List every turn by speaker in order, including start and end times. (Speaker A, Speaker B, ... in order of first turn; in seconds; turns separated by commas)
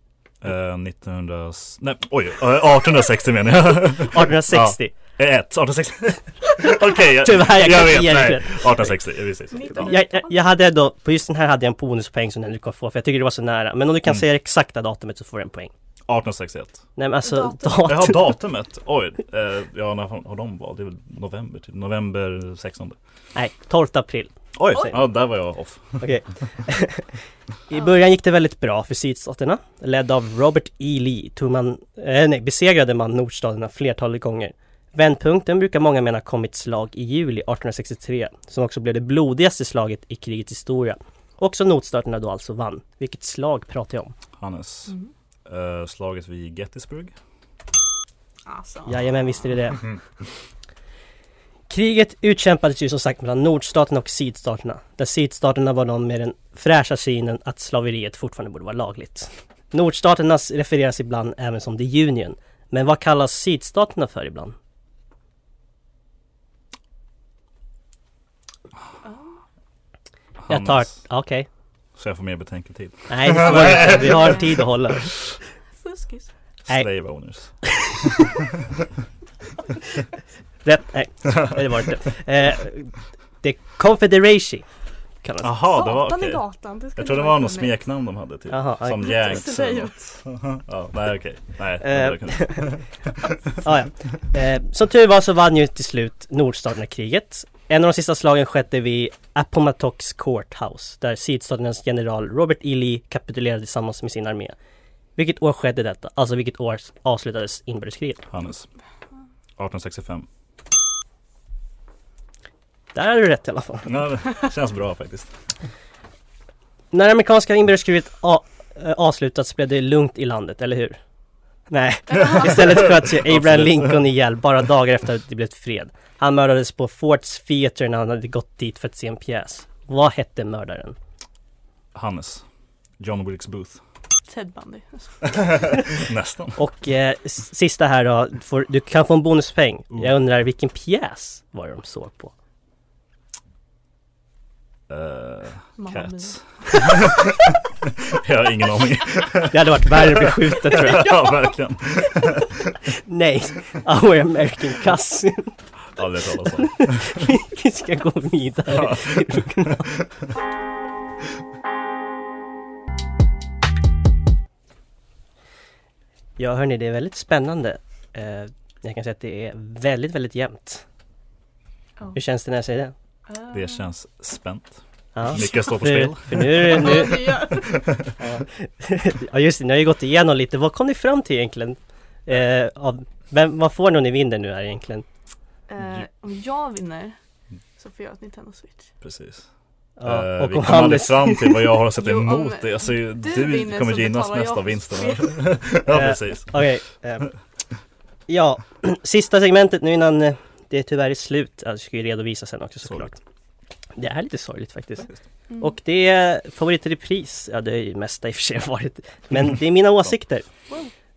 Speaker A: 0.4-10.0, Speaker B: 4.1-5.0, Speaker B: 7.2-9.0, Speaker C: 9.5-10.3, Speaker B: 9.8-15.7, Speaker A: 16.1-16.9, Speaker B: 17.0-18.3, Speaker C: 17.3-17.8, Speaker A: 17.8-23.0, Speaker B: 23.4-24.3, Speaker A: 24.6-26.1, Speaker B: 26.0-27.1, Speaker B: 27.7-44.1, Speaker A: 44.4-45.0, Speaker A: 45.5-47.1, Speaker C: 48.5-49.1, Speaker B: 48.9-49.9, Speaker B: 51.7-64.5, Speaker C: 69.0-69.4, Speaker A: 70.5-71.1, Speaker B: 70.5-71.5, Speaker A: 72.0-74.6, Speaker B: 73.1-75.1, Speaker C: 73.8-74.5, Speaker C: 75.8-76.3, Speaker A: 76.7-77.8, Speaker B: 77.6-78.2, Speaker B: 80.7-84.7, Speaker B: 85.2-85.5, Speaker A: 85.4-86.4, Speaker C: 85.7-87.8, Speaker A: 87.0-93.1, Speaker B: 88.5-89.5, Speaker C: 89.0-89.9, Speaker B: 91.8-92.7, Speaker B: 93.6-104.5, Speaker B: 105.2-108.3, Speaker A: 108.3-108.7, Speaker A: 109.6-110.3, Speaker B: 112.9-114.0, Speaker A: 113.9-115.3, Speaker B: 116.9-121.0, Speaker B: 121.7-131.0, Speaker C: 122.1-122.9, Speaker A: 122.4-124.0, Speaker A: 131.9-132.4, Speaker A: 133.0-133.8, Speaker C: 134.3-135.2, Speaker A: 135.3-136.6, Speaker B: 136.6-142.3, Speaker A: 144.9-147.3, Speaker C: 145.8-147.2, Speaker A: 148.1-152.6, Speaker B: 149.5-151.2, Speaker B: 153.1-155.6, Speaker A: 156.0-157.3, Speaker B: 156.6-159.9, Speaker A: 158.7-159.5, Speaker B: 166.4-170.8, Speaker B: 172.2-172.9, Speaker C: 173.3-173.8, Speaker A: 173.5-178.1, Speaker B: 175.2-177.5, Speaker C: 175.3-175.7, Speaker C: 176.7-177.9, Speaker B: 178.2-185.1, Speaker C: 185.7-187.2, Speaker C: 187.8-188.9, Speaker A: 189.0-189.5, Speaker B: 190.0-191.7, Speaker A: 190.0-196.6, Speaker C: 192.0-195.5, Speaker B: 195.9-197.3, Speaker B: 198.3-203.2, Speaker B: 204.0-210.5